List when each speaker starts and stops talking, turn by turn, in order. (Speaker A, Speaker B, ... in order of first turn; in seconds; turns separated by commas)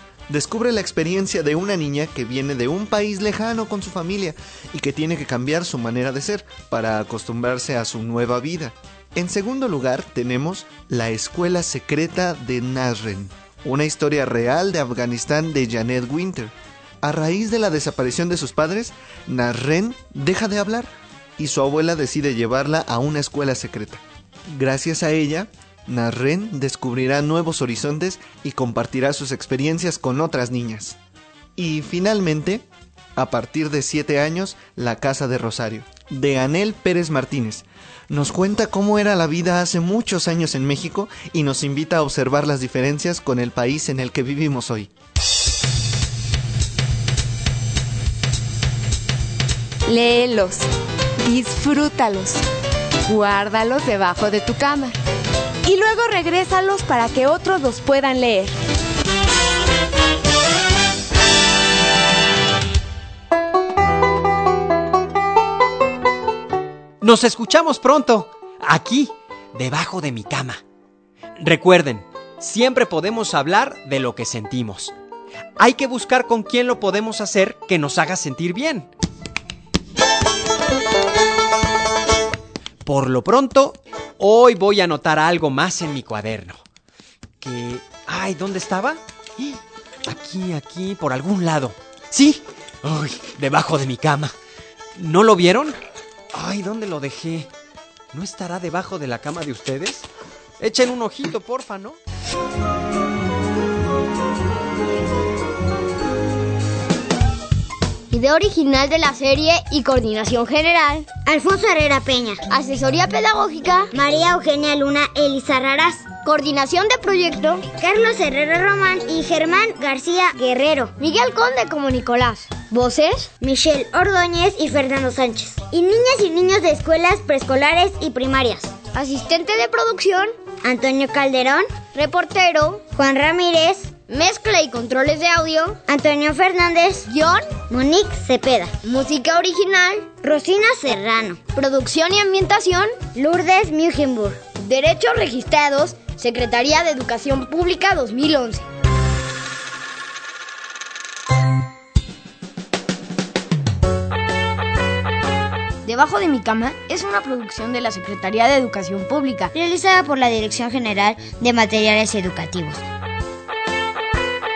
Speaker A: 0.3-24.0, Speaker A: 24.5-31.0, Speaker A: 31.6-32.6, Speaker A: 33.2-44.9, Speaker B: 49.9-50.7, Speaker B: 51.2-52.4, Speaker B: 53.1-55.0, Speaker B: 55.6-58.5, Speaker C: 67.0-70.6, Speaker C: 71.4-74.9, Speaker C: 75.6-78.9, Speaker C: 82.8-86.6, Speaker C: 87.4-94.3, Speaker C: 95.0-95.8, Speaker C: 96.3-97.5, Speaker C: 98.1-100.1, Speaker C: 100.6-102.0, Speaker D: 108.1-111.1, Speaker E: 111.2-112.4, Speaker D: 112.5-113.9, Speaker E: 113.9-116.2, Speaker D: 116.2-117.6, Speaker E: 117.7-120.9, Speaker D: 121.0-123.3, Speaker E: 123.4-128.7, Speaker D: 128.9-130.3, Speaker E: 130.6-131.8, Speaker D: 131.9-132.8, Speaker E: 132.8-134.0, Speaker D: 134.1-135.8, Speaker E: 135.8-138.8, Speaker D: 137.1-137.6, Speaker D: 138.8-140.1, Speaker E: 140.1-141.4, Speaker D: 141.5-143.0, Speaker E: 143.1-144.5, Speaker D: 144.6-148.6, Speaker D: 155.8-159.5, Speaker E: 159.5-162.8